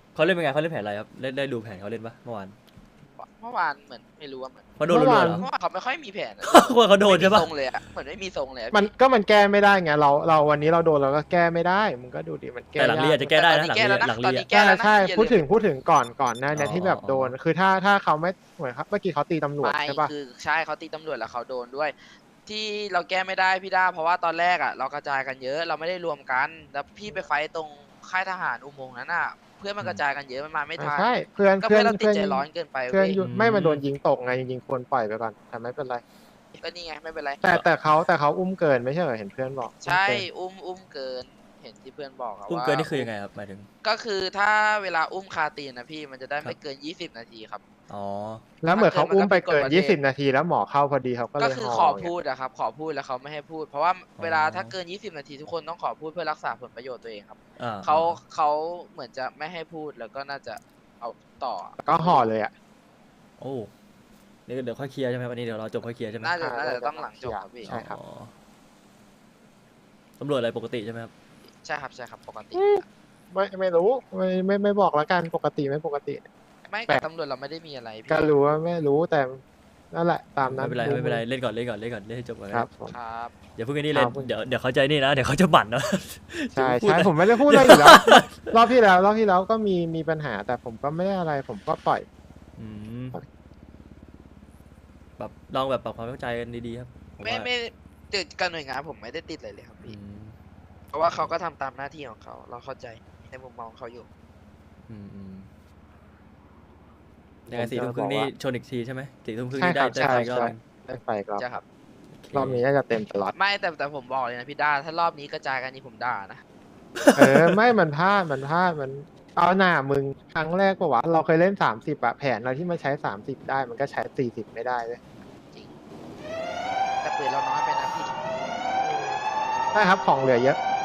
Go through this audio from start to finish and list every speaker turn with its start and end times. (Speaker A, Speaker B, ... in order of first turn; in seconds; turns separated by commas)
Speaker A: 0.1-2.5, Speaker B: 3.2-8.9, Speaker A: 4.8-5.5, Speaker C: 4.9-5.4, Speaker A: 6.4-7.5, Speaker C: 8.7-13.3, Speaker A: 12.8-14.5, Speaker B: 13.3-15.4, Speaker C: 14.5-20.1, Speaker A: 16.5-17.4, Speaker B: 19.6-21.9, Speaker B: 22.4-33.2, Speaker C: 30.8-36.0, Speaker A: 33.2-33.8, Speaker B: 36.6-37.5, Speaker C: 37.4-40.2, Speaker B: 39.8-43.1, Speaker A: 42.5-43.7, Speaker B: 43.8-47.6, Speaker A: 47.9-48.4, Speaker C: 48.6-52.1, Speaker B: 48.7-50.0, Speaker B: 51.4-62.3, Speaker A: 54.2-54.7, Speaker A: 57.6-58.2, Speaker C: 61.8-62.5, Speaker A: 63.4-63.7, Speaker A: 64.5-66.3, Speaker B: 66.2-67.7, Speaker C: 66.4-68.0, Speaker A: 67.6-68.3, Speaker A: 70.2-71.1, Speaker B: 71.6-72.8, Speaker C: 72.5-76.2, Speaker B: 76.7-78.3, Speaker C: 78.1-79.4, Speaker C: 79.9-81.2, Speaker A: 80.4-82.7, Speaker C: 82.5-82.9, Speaker B: 82.9-83.3, Speaker A: 83.5-88.5, Speaker C: 83.9-84.3, Speaker C: 86.5-92.0, Speaker A: 92.6-93.2, Speaker A: 95.2-97.5, Speaker B: 97.2-100.0, Speaker A: 99.8-100.3, Speaker B: 100.9-104.1, Speaker A: 104.9-105.5, Speaker C: 107.5-108.3, Speaker A: 107.5-110.6, Speaker C: 109.5-111.4, Speaker B: 109.9-110.4, Speaker B: 111.4-111.6, Speaker A: 112.2-112.6, Speaker C: 112.3-113.3, Speaker B: 113.3-116.4, Speaker A: 117.0-117.6, Speaker C: 117.2-125.0, Speaker B: 127.0-128.1, Speaker C: 128.8-129.2, Speaker C: 129.7-130.6